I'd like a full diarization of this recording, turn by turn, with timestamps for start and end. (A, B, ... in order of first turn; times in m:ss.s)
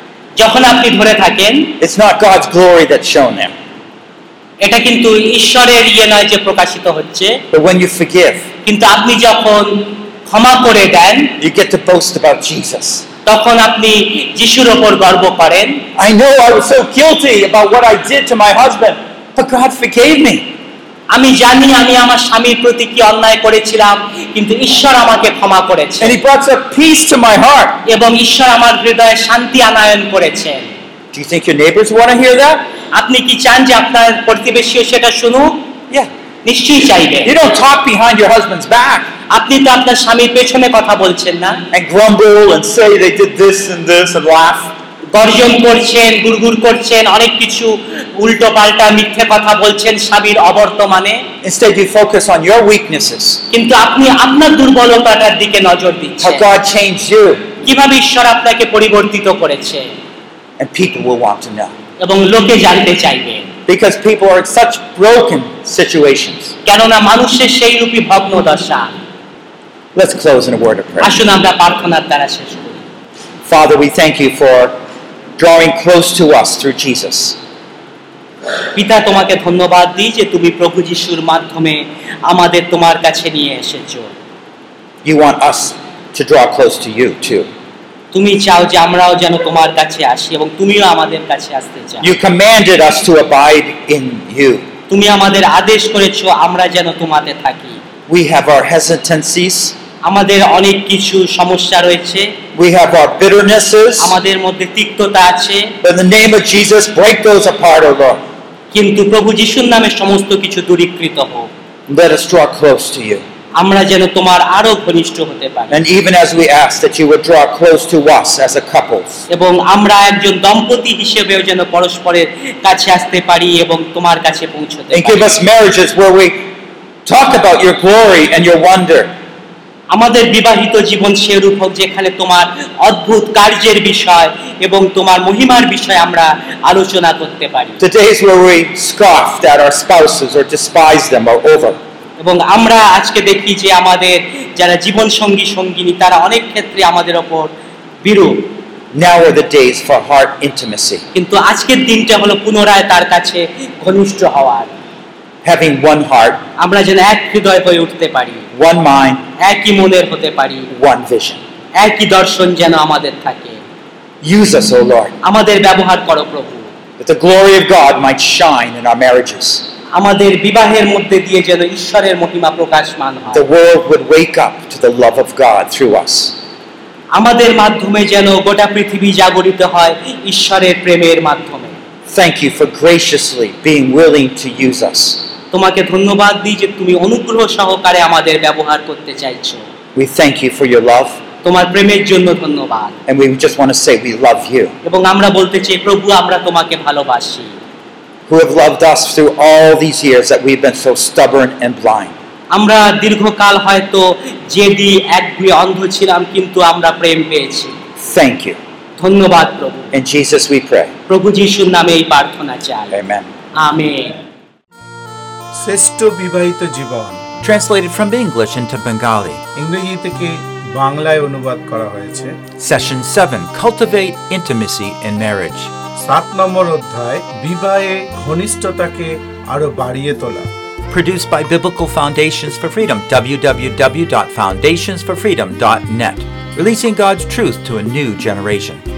0:00.4-0:01.7 A
0:01.8-0:03.5 B
0:04.6-0:07.4 A
0:07.5-0:08.5 B
0:08.6-0:11.3 A
0:11.4-0:13.0 B
0:13.2-0:15.8 A
0:16.0-0:20.5 B
0:21.1-0:26.2 A
0:26.0-0:27.8 B
0:27.8-0:30.7 A
0:31.1-0:32.6 B
0:33.0-0:35.7 A
0:36.4-0:37.4 A
0:37.2-0:39.1 B
0:39.3-0:41.6 A
0:41.7-0:44.7 B
0:45.1-0:51.2 A
0:51.4-0:53.4 B
0:53.5-0:56.4 A
0:56.2-0:57.4 B
0:57.6-0:59.9 A
1:00.6-1:01.7 B
1:02.0-1:03.5 A
1:03.7-1:06.5 B
1:06.6-1:08.9 A
1:09.9-1:11.2 B
1:11.0-1:12.8 A
1:13.5-1:14.7 B
1:15.4-1:17.4 B
1:18.7-1:24.1 A
1:25.0-1:27.5 B
1:28.1-1:32.1 A
1:32.0-1:34.6 B
1:34.9-1:37.8 A
1:38.1-1:39.8 B
1:40.0-1:42.3 A
1:42.5-1:44.2 B
1:44.0-1:45.7 A
1:45.8-1:48.2 B
1:48.7-1:51.5 A
1:51.9-1:53.2 B
1:53.6-1:55.8 A
1:55.7-1:59.2 B
1:59.3-2:05.2 A
2:04.9-2:06.5 B
2:07.0-2:09.1 B
2:09.9-2:17.8 A
2:17.8-2:21.8 B
2:22.2-2:28.5 A
2:28.9-2:31.0 B
2:31.1-2:34.7 A
2:35.4-2:36.4 B
2:36.6-2:38.4 A
2:38.5-2:39.2 B
2:39.4-2:40.7 A
2:40.7-2:41.4 B
2:41.8-2:43.6 A
2:44.2-2:45.1 B
2:45.2-2:46.7 A
2:47.0-2:49.6 B
2:49.9-2:53.4 A
2:53.3-2:56.4 B
2:57.1-3:01.7 A
3:02.1-3:05.3 B
3:05.5-3:09.6 A
3:09.9-3:11.2 B
3:11.4-3:13.0 A
3:13.1-3:14.7 B
3:14.8-3:17.5 A
3:18.3-3:22.1 B
3:22.5-3:27.8 A
3:28.0-3:28.6 B
3:29.0-3:29.9 A
3:29.9-3:30.9 B
3:31.1-3:32.9 A
3:32.9-3:33.3 B
3:33.5-3:34.2 A
3:35.5-3:37.2 C
3:37.4-3:39.4 B
3:39.6-3:42.4 C
3:42.6-3:45.7 B
3:46.0-3:50.5 C
3:50.9-3:58.8 B